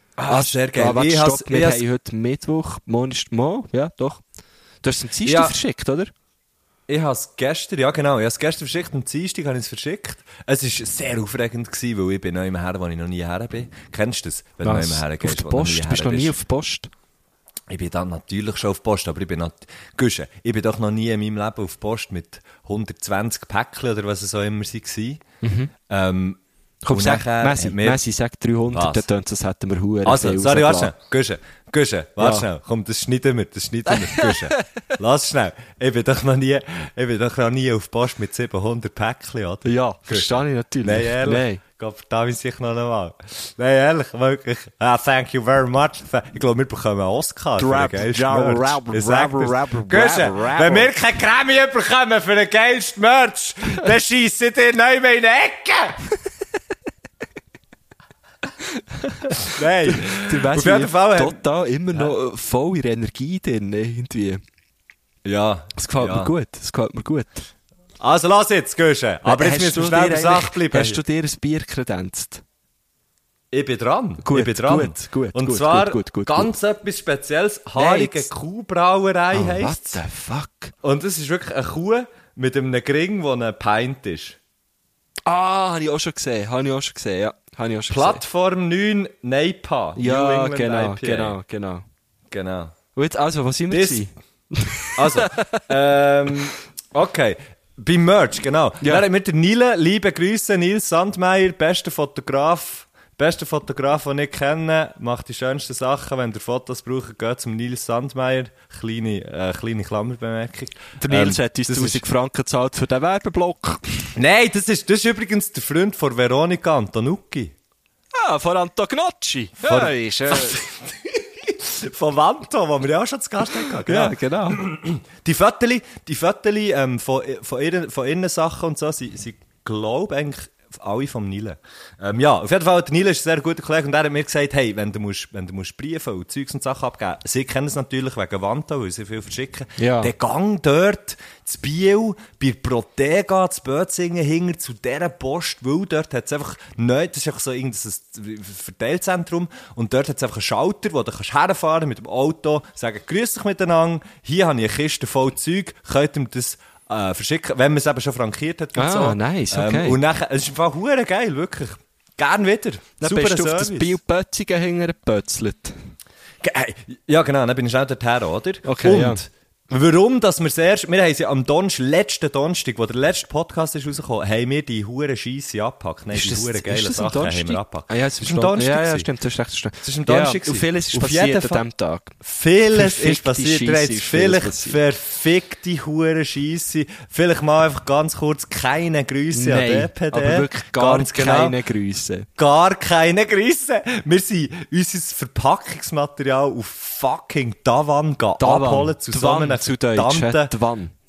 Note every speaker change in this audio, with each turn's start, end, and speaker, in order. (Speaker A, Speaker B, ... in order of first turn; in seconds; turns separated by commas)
Speaker A: 0.2-1.8, Speaker B: 0.3-4.2, Speaker B: 4.8-6.1, Speaker A: 5.2-5.5, Speaker A: 6.9-16.4, Speaker B: 14.6-16.9, Speaker A: 17.7-25.2, Speaker B: 25.4-25.7, Speaker A: 25.9-28.0, Speaker B: 26.8-30.9, Speaker A: 28.7-29.1, Speaker A: 30.0-56.0, Speaker B: 32.2-32.5, Speaker B: 33.9-34.6, Speaker B: 39.6-41.6, Speaker B: 47.5-50.9, Speaker B: 59.0-64.4, Speaker A: 59.4-61.4, Speaker A: 65.2-66.3, Speaker B: 65.8-67.5, Speaker A: 68.0-71.0, Speaker B: 69.2-72.4, Speaker A: 73.5-80.0, Speaker B: 74.2-76.5, Speaker B: 77.8-78.3, Speaker B: 79.3-80.7, Speaker A: 80.8-84.4, Speaker B: 85.2-88.2, Speaker A: 87.9-91.4, Speaker B: 90.0-91.8, Speaker A: 92.3-92.7, Speaker B: 92.9-95.6, Speaker A: 93.7-94.0, Speaker A: 95.0-112.0, Speaker B: 111.0-114.0, Speaker A: 114.2-117.5, Speaker B: 118.1-120.6, Speaker A: 119.6-164.0, Speaker B: 123.8-124.6, Speaker B: 139.8-140.1, Speaker B: 158.7-160.0, Speaker B: 163.0-165.8, Speaker A: 166.4-179.1, Speaker B: 168.6-169.2, Speaker B: 176.1-182.2, Speaker A: 179.8-181.6, Speaker A: 182.2-191.6, Speaker B: 182.7-184.8, Speaker B: 189.3-192.3, Speaker A: 192.4-200.5, Speaker B: 198.4-200.9